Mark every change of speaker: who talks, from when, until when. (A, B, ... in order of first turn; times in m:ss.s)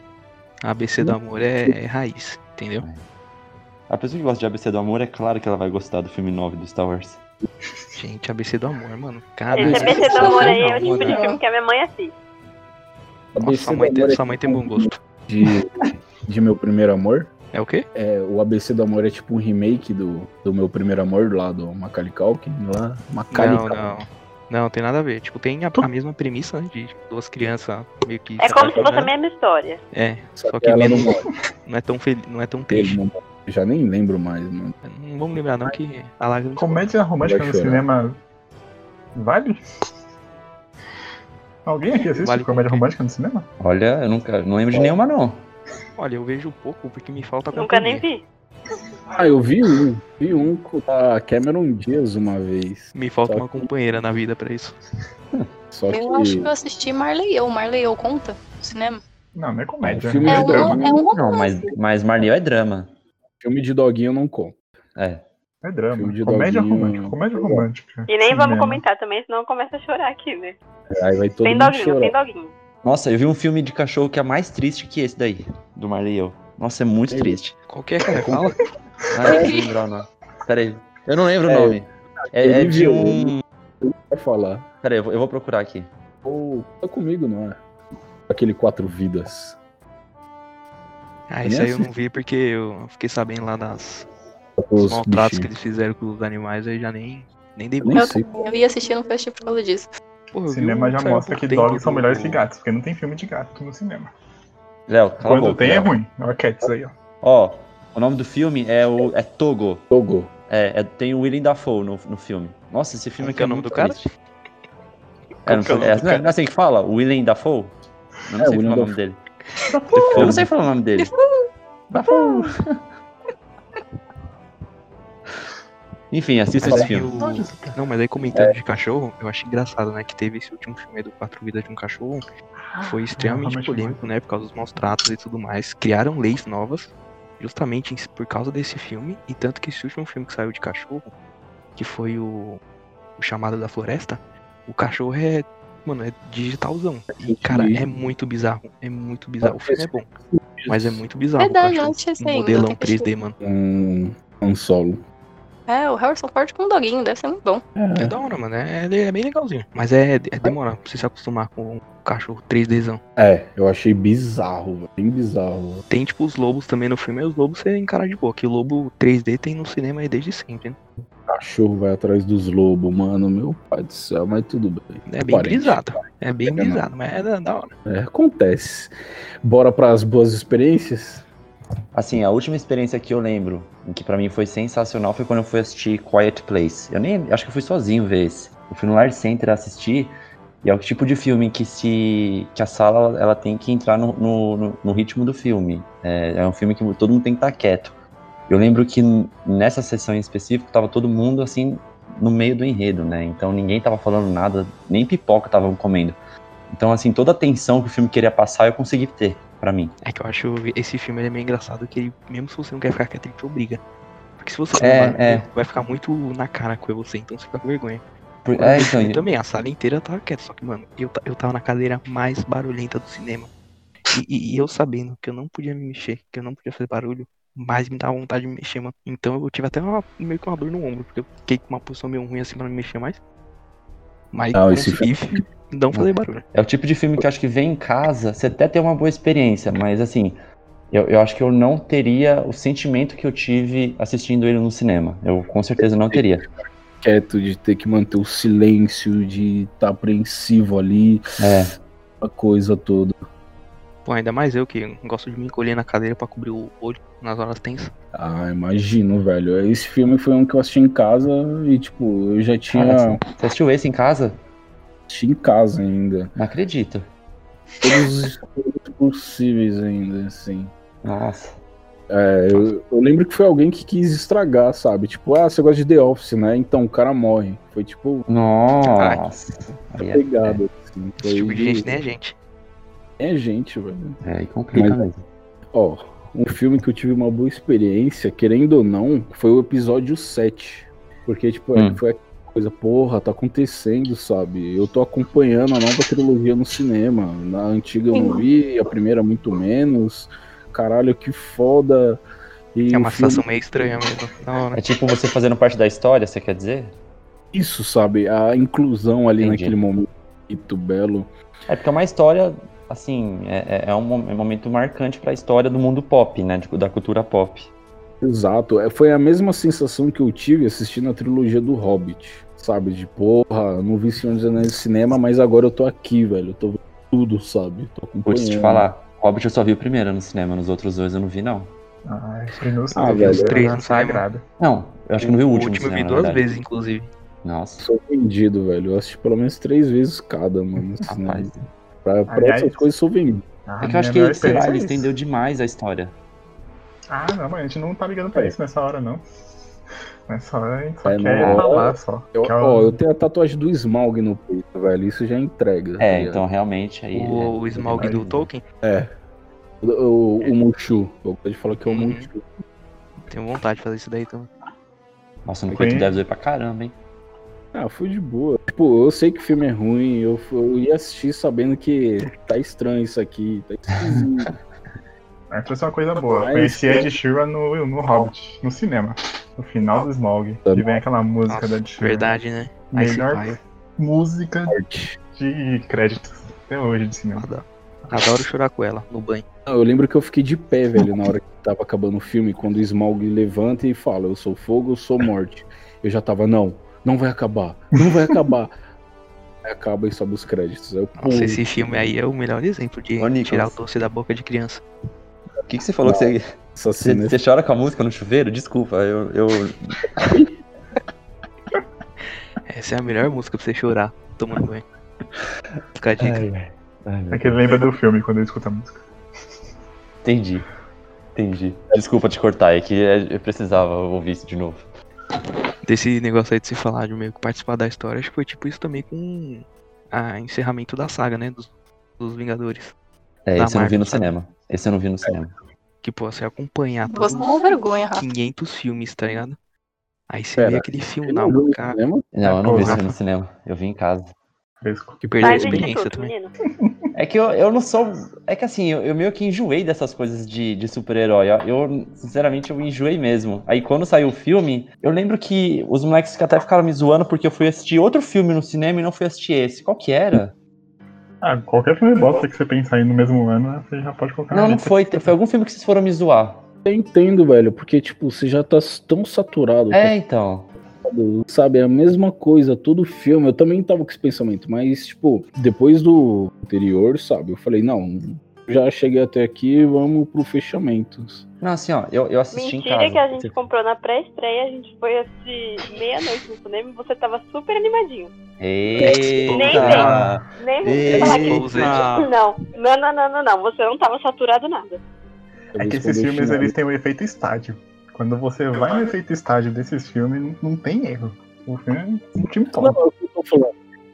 0:00.6-0:02.8 A
0:01.0-0:01.7 B
0:03.9-0:07.2 C
0:08.0-0:11.3 A
0:09.5-0:12.1 D
0:09.6-0:10.1 B
0:09.7-0:11.4 E
0:13.3-0:17.3 B
0:13.4-0:15.0 A
0:17.5-0:17.8 A
0:17.9-0:24.0 B
0:23.3-0:29.1 A
0:28.4-0:29.8 D
0:29.9-0:31.1 A
0:30.4-0:31.2 B
0:31.6-0:33.0 A
0:32.7-0:34.7 B
0:34.8-0:36.8 A
0:36.6-0:38.2 F
0:37.2-0:37.8 B
0:39.1-0:39.6 F
0:41.6-0:43.4 F
0:42.1-0:42.8 A
0:43.6-0:45.4 C
0:46.0-0:48.0 A
0:47.5-0:48.2 D
0:49.1-0:53.7 B
0:52.9-0:54.8 A
0:55.7-0:56.5 B
0:55.9-0:59.0 E
0:59.3-1:00.8 F
0:59.8-1:01.0 B
1:00.2-1:01.7 E
1:01.1-1:02.9 C
1:03.4-1:04.6 B
1:05.0-1:05.2 C
1:05.6-1:08.8 F
1:05.9-1:07.6 B
1:08.1-1:10.6 D
1:10.9-1:12.1 B
1:11.4-1:12.5 D
1:12.8-1:17.6 C
1:17.1-1:17.4 B
1:17.7-1:18.6 A
1:18.1-1:18.5 B
1:19.1-1:23.4 C
1:19.2-1:19.7 E
1:19.2-1:19.5 B
1:21.4-1:24.7 B
1:24.8-1:25.9 C
1:26.2-1:27.6 B
1:28.3-1:29.6 B
1:31.3-1:34.1 A
1:31.4-1:31.9 B
1:34.6-1:35.5 B
1:34.8-1:38.1 A
1:37.8-1:38.3 B
1:37.9-1:39.9 E
1:40.3-1:42.4 A
1:40.5-1:44.1 F
1:44.9-1:45.9 C
1:45.2-1:46.9 F
1:47.2-1:49.8 C
1:49.9-1:50.3 B
1:50.5-1:54.1 C
1:53.2-1:54.1 A
1:55.4-1:56.3 A
1:55.4-1:57.7 C
1:58.2-1:59.2 C
1:58.4-1:59.0 B
1:59.7-2:00.3 F
1:59.9-2:00.4 A
2:00.1-2:01.1 C
2:00.1-2:01.3 E
2:01.9-2:02.8 C
2:06.1-2:07.1 C
2:06.6-2:07.0 B
2:06.6-2:12.2 A
2:07.1-2:07.8 F
2:12.6-2:14.1 F
2:12.8-2:21.1 A
2:21.8-2:22.6 A
2:23.2-2:30.1 A
2:27.2-2:27.8 B
2:29.4-2:31.0 B
2:30.7-2:33.4 A
2:31.4-2:33.1 E
2:33.4-2:35.0 B
2:35.7-2:37.6 E
2:37.7-2:38.1 B
2:38.0-2:43.0 A
2:43.2-2:45.8 B
2:45.9-2:50.8 A
2:51.2-2:56.8 B
2:55.0-2:57.7 A
2:57.8-3:01.2 B
3:01.9-3:17.9 C
3:18.5-3:26.2 C
3:26.7-3:29.9 C
3:30.0-3:33.8 A
3:34.4-3:38.0 A
3:34.8-3:35.5 C
3:38.4-3:39.2 C
3:38.6-3:43.5 A
3:44.1-3:53.2 A
3:54.3-3:56.4 A
3:54.5-3:55.1 B
3:55.9-4:00.4 C
4:00.9-4:06.4 C
4:05.8-4:06.3 B
4:07.0-4:11.2 B
4:11.4-4:11.8 C
4:12.2-4:13.2 B
4:14.0-4:17.9 A
4:18.1-4:23.2 B
4:22.7-4:24.4 C
4:25.1-4:26.3 B
4:26.4-4:27.0 C
4:27.8-4:30.7 B
4:31.0-4:31.6 C
4:32.1-4:38.2 B
4:38.3-4:40.6 C
4:38.8-4:39.2 A
4:40.0-4:42.0 B
4:41.2-4:42.3 A
4:43.2-4:44.2 B
4:44.2-4:45.2 C
4:44.7-4:45.0 B
4:45.7-5:02.2 B
4:51.7-4:52.0 C
5:02.7-5:03.4 B
5:02.9-5:04.8 A
5:04.7-5:06.9 C
5:07.5-5:11.3 B
5:09.4-5:09.8 C
5:11.7-5:17.7 C
5:18.2-5:28.9 B
5:28.2-5:31.7 C
5:32.0-5:34.4 F
5:32.9-5:33.7 B
5:33.0-5:34.2 A
5:34.6-5:36.5 C
5:35.2-5:37.1 A
5:37.4-5:37.8 C
5:37.8-5:41.5 B
5:41.1-5:41.6 C
5:42.0-5:43.4 B
5:42.3-5:42.8 F
5:43.7-5:45.1 F
5:43.8-5:46.1 C
5:47.1-5:49.2 F
5:50.3-5:53.0 F
5:51.0-5:56.4 B
5:51.4-5:51.7 C
5:56.0-5:58.4 C
5:57.1-5:58.6 A
5:58.0-5:58.3 F
5:58.8-5:59.1 B
5:59.8-6:02.5 B
6:01.9-6:02.3 A
6:03.3-6:04.5 A
6:05.4-6:06.9 C
6:05.7-6:06.2 F
6:07.7-6:14.5 B
6:15.5-6:22.3 F
6:16.2-6:17.1 B
6:20.7-6:21.0 B
6:21.5-6:23.6 A
6:22.9-6:24.8 F
6:24.7-6:25.2 B
6:25.3-6:27.5 F
6:27.4-6:29.4 A
6:29.6-6:38.7 B
6:39.6-6:41.7 B
6:41.2-6:44.8 A
6:43.2-6:43.8 C
6:45.6-6:46.5 C
6:46.0-6:47.4 B
6:47.0-6:50.3 C
6:52.7-6:54.8 A
6:55.9-6:56.4 A
6:56.2-6:57.8 C
6:57.3-6:59.0 F
7:00.2-7:00.7 C
7:01.3-7:04.8 C
7:05.8-7:12.9 A
7:13.4-7:15.5 C
7:13.6-7:14.3 A
7:16.0-7:19.6 A
7:17.1-7:18.2 E
7:20.3-7:22.0 A
7:20.6-7:22.3 B
7:22.3-7:24.3 C
7:22.5-7:23.1 F
7:22.7-7:23.0 A
7:24.8-7:25.2 F
7:25.2-7:26.3 A
7:25.4-7:26.5 D
7:26.7-7:27.0 F
7:27.1-7:40.5 C
7:41.4-7:45.3 F
7:44.5-7:46.6 C
7:46.8-7:50.1 B
7:49.9-7:50.7 C
7:51.0-8:01.4 B
8:01.6-8:03.6 C
8:02.5-8:08.3 D
8:08.6-8:12.0 C
8:09.0-8:09.3 B
8:09.4-8:10.2 A
8:09.5-8:15.0 D
8:10.0-8:10.3 F
8:11.1-8:12.2 A
8:15.7-8:16.7 B
8:15.8-8:23.0 F
8:22.8-8:23.7 B